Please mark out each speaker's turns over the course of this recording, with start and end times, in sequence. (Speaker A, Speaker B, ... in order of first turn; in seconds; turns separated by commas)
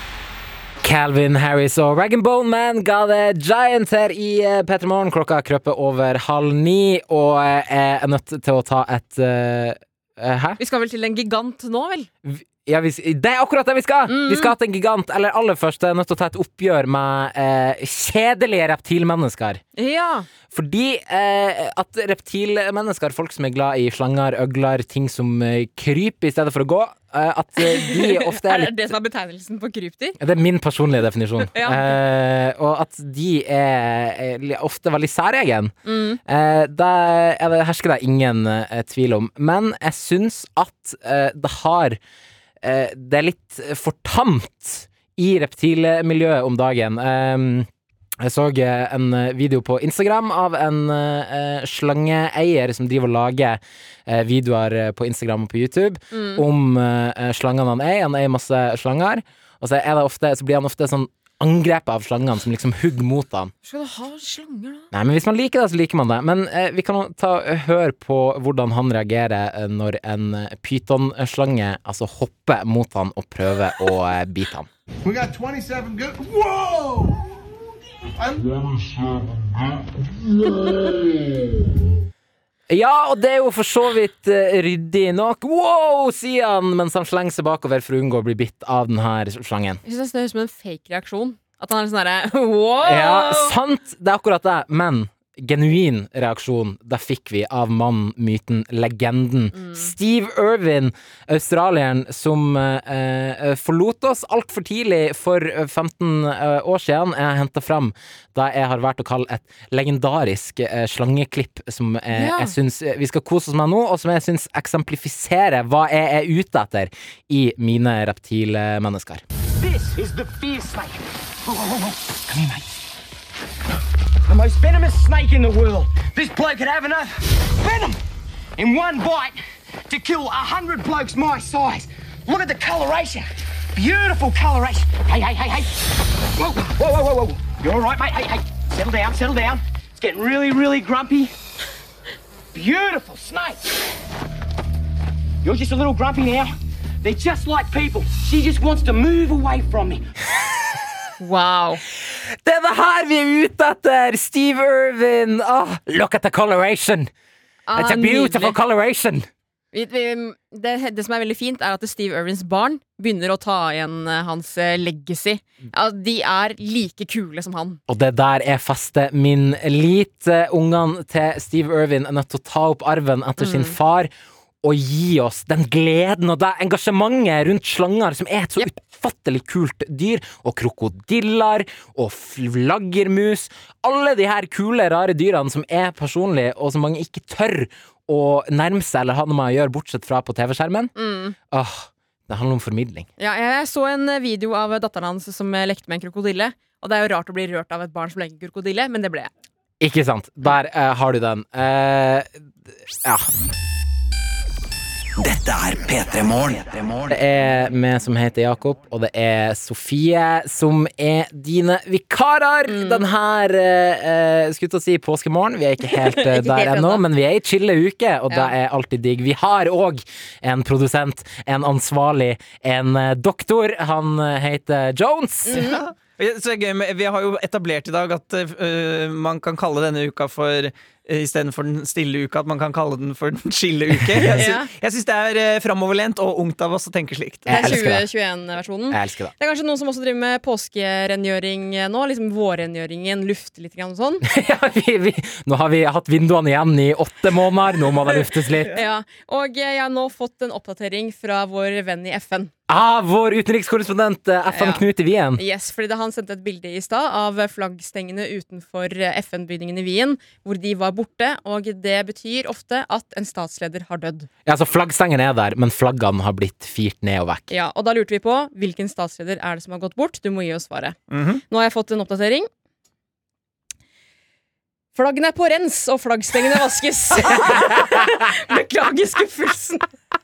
Speaker A: 0.8-10.6, Speaker B: 10.6-12.1, Speaker A: 12.2-19.6, Speaker B: 14.1-14.5, Speaker B: 19.8-20.3, Speaker A: 20.5-28.7, Speaker B: 27.6-30.2, Speaker A: 30.2-35.7, Speaker B: 31.5-32.0, Speaker B: 35.9-36.2, Speaker A: 36.3-42.0, Speaker A: 42.6-47.7, Speaker A: 48.2-63.5, Speaker B: 56.1-56.5, Speaker B: 63.6-64.9, Speaker A: 64.9-74.7, Speaker C: 75.0-77.2, Speaker C: 78.2-80.7, Speaker A: 82.7-89.8, Speaker B: 89.8-93.5, Speaker A: 92.8-119.2, Speaker B: 99.5-99.9, Speaker B: 112.1-112.5, Speaker D: 119.6-122.7, Speaker D: 124.3-128.0, Speaker D: 128.6-141.3, Speaker D: 142.5-143.7, Speaker D: 145.4-150.1, Speaker B: 151.2-151.8, Speaker A: 152.0-157.1, Speaker B: 157.7-158.6, Speaker A: 157.8-159.3, Speaker B: 159.7-167.8, Speaker A: 167.9-174.1, Speaker B: 173.4-173.8, Speaker A: 174.6-190.9, Speaker B: 191.0-191.4, Speaker A: 191.5-193.1, Speaker B: 193.2-199.3, Speaker A: 199.8-202.3, Speaker A: 203.0-203.3, Speaker E: 205.2-207.1, Speaker A: 207.1-225.7, Speaker B: 212.7-213.1, Speaker B: 215.9-217.0, Speaker B: 225.5-225.8, Speaker F: 225.5-237.8, Speaker A: 234.1-234.4, Speaker B: 234.3-234.7, Speaker B: 237.5-244.2, Speaker A: 237.5-238.1, Speaker A: 238.9-239.3, Speaker A: 244.2-248.8, Speaker B: 248.7-252.5, Speaker A: 252.7-255.4, Speaker B: 254.5-254.8, Speaker B: 255.4-264.3, Speaker A: 264.5-267.5, Speaker B: 267.5-272.5, Speaker F: 271.1-271.4, Speaker B: 274.9-279.9, Speaker A: 277.4-278.1